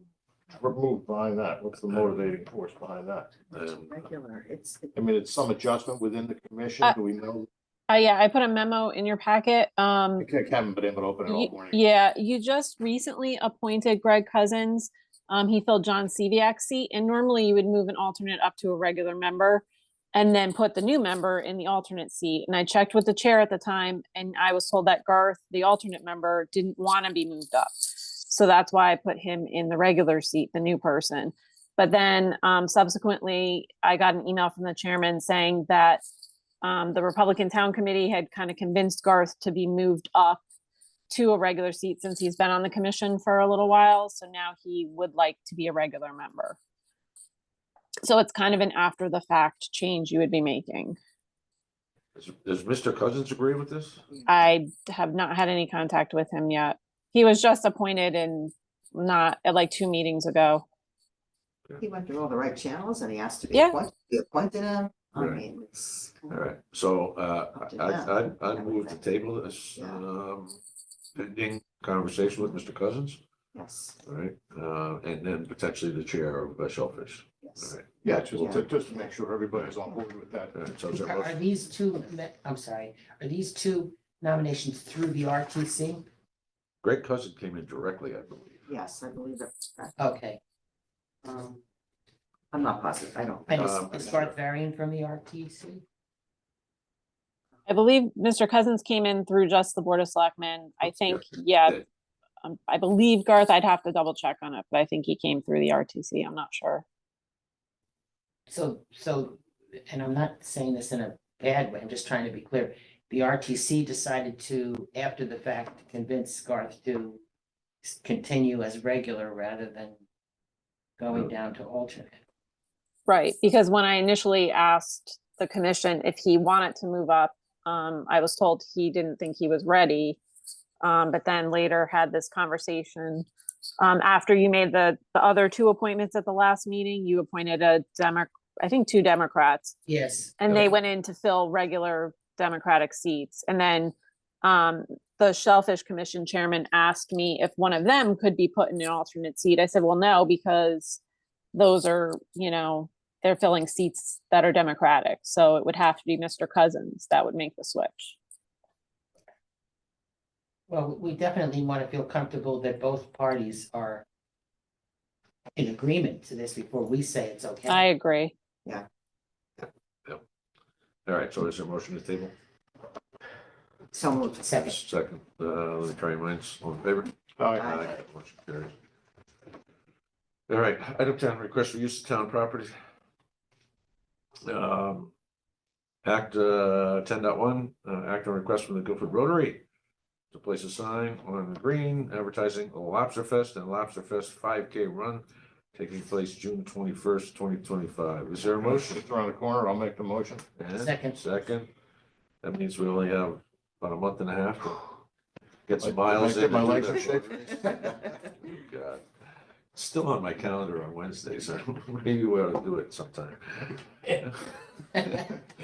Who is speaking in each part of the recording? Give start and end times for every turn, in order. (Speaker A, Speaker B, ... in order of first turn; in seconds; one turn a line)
Speaker A: 0.5-3.3
Speaker B: 1.9-2.3
Speaker B: 3.5-4.0
Speaker C: 3.5-5.0
Speaker A: 4.9-7.5
Speaker D: 7.9-10.3
Speaker A: 10.2-11.8
Speaker D: 11.3-36.0
Speaker D: 36.6-40.4
Speaker D: 41.1-46.6
Speaker D: 48.0-51.0
Speaker B: 52.1-54.0
Speaker D: 54.2-60.6
Speaker C: 61.8-66.4
Speaker D: 63.5-63.8
Speaker B: 65.2-65.4
Speaker B: 66.3-70.6
Speaker C: 67.5-69.0
Speaker C: 69.7-70.0
Speaker B: 71.1-73.2
Speaker C: 73.5-74.0
Speaker B: 74.0-78.4
Speaker C: 77.4-77.7
Speaker A: 78.0-80.5
Speaker C: 78.3-79.1
Speaker B: 80.5-81.4
Speaker E: 80.9-86.0
Speaker B: 86.8-88.7
Speaker C: 88.7-90.0
Speaker E: 90.0-90.4
Speaker C: 91.2-91.5
Speaker C: 92.5-94.2
Speaker E: 93.5-95.8
Speaker B: 93.6-94.3
Speaker D: 97.7-101.8
Speaker B: 100.8-101.8
Speaker D: 102.4-106.8
Speaker E: 108.5-117.2
Speaker E: 117.8-120.0
Speaker E: 121.0-122.1
Speaker D: 123.1-130.2
Speaker D: 130.8-133.3
Speaker D: 133.8-139.8
Speaker E: 139.9-140.3
Speaker D: 140.4-151.0
Speaker D: 151.5-158.2
Speaker E: 160.7-164.0
Speaker E: 165.6-167.8
Speaker D: 167.7-168.3
Speaker B: 171.1-172.3
Speaker C: 173.9-174.6
Speaker E: 174.4-174.8
Speaker B: 174.5-178.7
Speaker A: 177.4-177.8
Speaker C: 177.6-177.9
Speaker B: 180.5-182.7
Speaker B: 184.4-185.1
Speaker B: 186.0-189.6
Speaker B: 190.3-199.0
Speaker A: 198.6-200.4
Speaker B: 200.6-201.7
Speaker E: 200.7-201.2
Speaker B: 202.4-204.8
Speaker B: 205.7-209.0
Speaker A: 205.8-207.7
Speaker B: 209.7-215.4